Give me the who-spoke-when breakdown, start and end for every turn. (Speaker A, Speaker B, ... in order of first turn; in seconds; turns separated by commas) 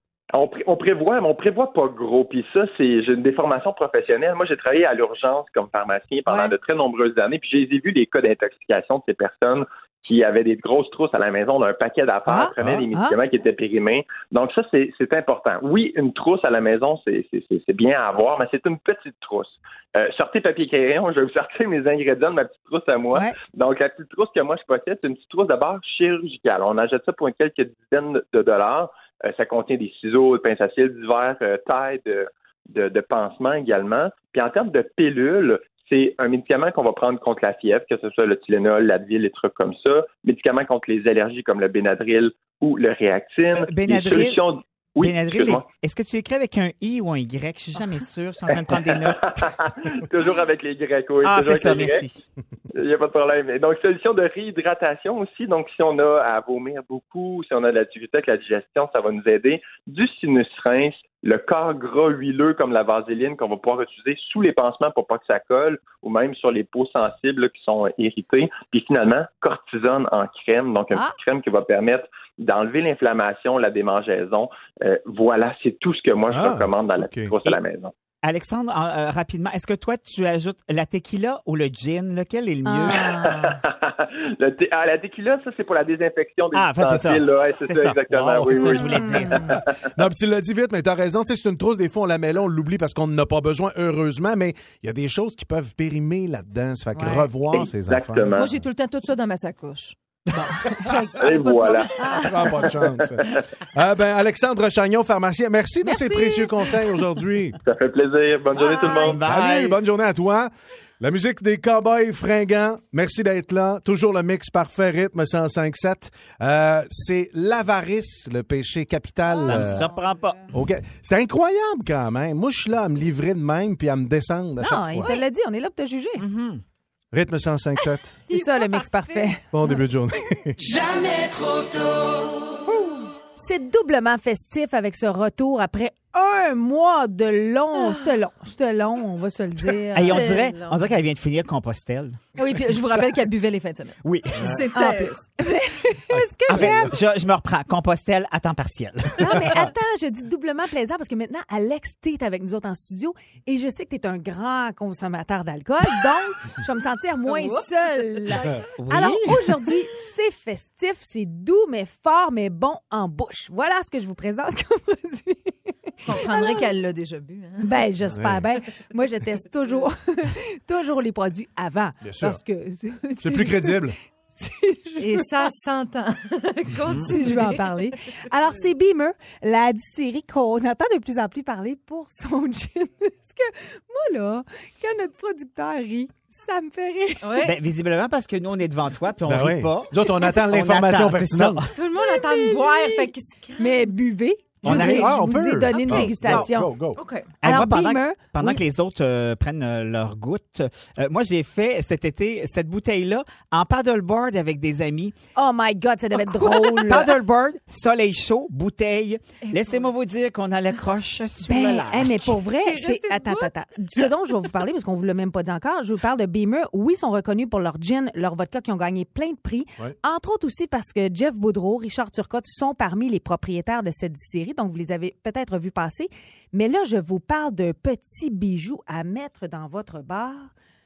Speaker A: 0.3-45.6, Speaker B: 6.3-6.5, Speaker B: 12.2-13.2, Speaker C: 12.6-12.8, Speaker D: 43.5-44.4, Speaker D: 45.0-49.3, Speaker A: 48.5-52.0, Speaker D: 51.2-52.2, Speaker A: 52.7-77.9, Speaker B: 70.9-71.2, Speaker C: 76.3-77.3, Speaker D: 78.2-83.1, Speaker B: 82.6-83.5, Speaker A: 82.8-89.8, Speaker D: 86.5-89.6, Speaker B: 88.6-89.6, Speaker C: 89.9-98.3, Speaker B: 96.9-97.3, Speaker A: 97.5-98.5, Speaker E: 98.3-102.7, Speaker A: 101.1-101.9, Speaker B: 102.0-102.4, Speaker C: 102.1-107.6, Speaker B: 106.0-106.6, Speaker A: 107.7-109.2, Speaker E: 108.5-109.2, Speaker D: 108.7-109.8, Speaker C: 109.2-119.9, Speaker D: 119.4-120.5, Speaker B: 119.7-120.1, Speaker C: 120.5-125.2, Speaker B: 124.6-126.2, Speaker D: 126.2-126.6, Speaker C: 127.1-128.2, Speaker E: 128.3-129.3, Speaker B: 128.3-129.4, Speaker C: 129.5-130.8, Speaker B: 133.3-140.2, Speaker E: 137.7-138.1, Speaker D: 139.9-142.2, Speaker E: 140.0-140.9, Speaker E: 142.3-145.2, Speaker D: 144.0-144.5, Speaker B: 144.7-146.9, Speaker C: 146.1-147.0, Speaker D: 146.5-149.4, Speaker B: 149.2-166.6, Speaker C: 149.3-149.7, Speaker E: 157.2-158.5, Speaker D: 158.8-159.5, Speaker E: 166.0-167.9, Speaker B: 167.6-175.2, Speaker C: 168.1-168.4, Speaker C: 172.0-172.4, Speaker C: 173.2-173.9, Speaker E: 175.0-177.7, Speaker B: 176.9-187.4, Speaker E: 187.2-187.5, Speaker D: 187.4-191.7, Speaker C: 189.2-191.6, Speaker E: 191.7-193.9, Speaker B: 192.0-196.8, Speaker D: 194.6-195.1, Speaker C: 194.6-197.0, Speaker E: 194.7-195.1, Speaker E: 195.7-197.3, Speaker D: 197.4-205.1, Speaker B: 197.4-198.6, Speaker B: 205.3-207.1, Speaker E: 206.1-207.2, Speaker D: 206.8-212.4, Speaker E: 209.4-209.9, Speaker B: 211.4-230.5, Speaker E: 212.6-213.5